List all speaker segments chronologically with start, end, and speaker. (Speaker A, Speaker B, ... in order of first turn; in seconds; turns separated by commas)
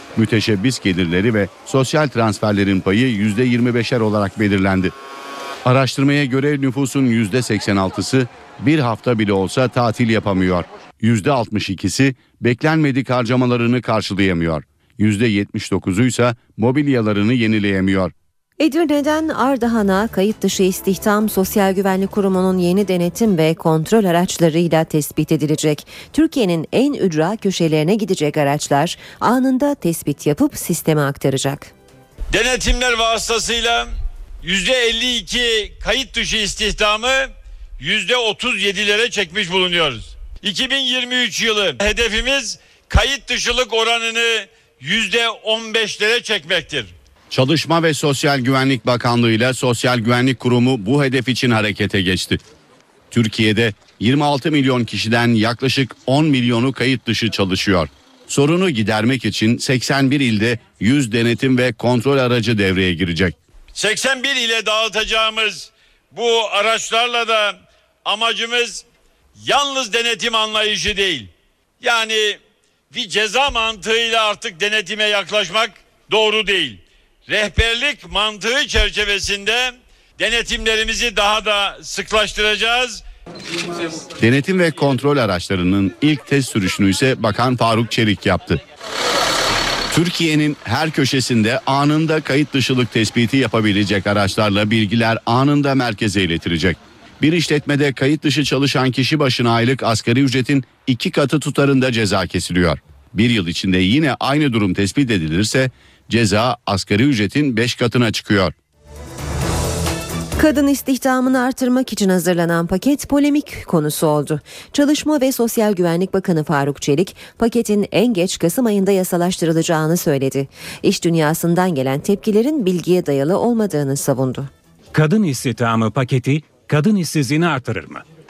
Speaker A: 0.2-4.9, Speaker A: 5.6-18.1, Speaker B: 18.6-31.7, Speaker C: 32.3-46.9, Speaker A: 47.3-52.4, Speaker A: 53.1-63.4, Speaker C: 63.8-68.8, Speaker C: 69.4-83.0, Speaker A: 84.2-88.6, Speaker A: 89.9-108.5, Speaker B: 110.4-124.5, Speaker D: 124.9-128.0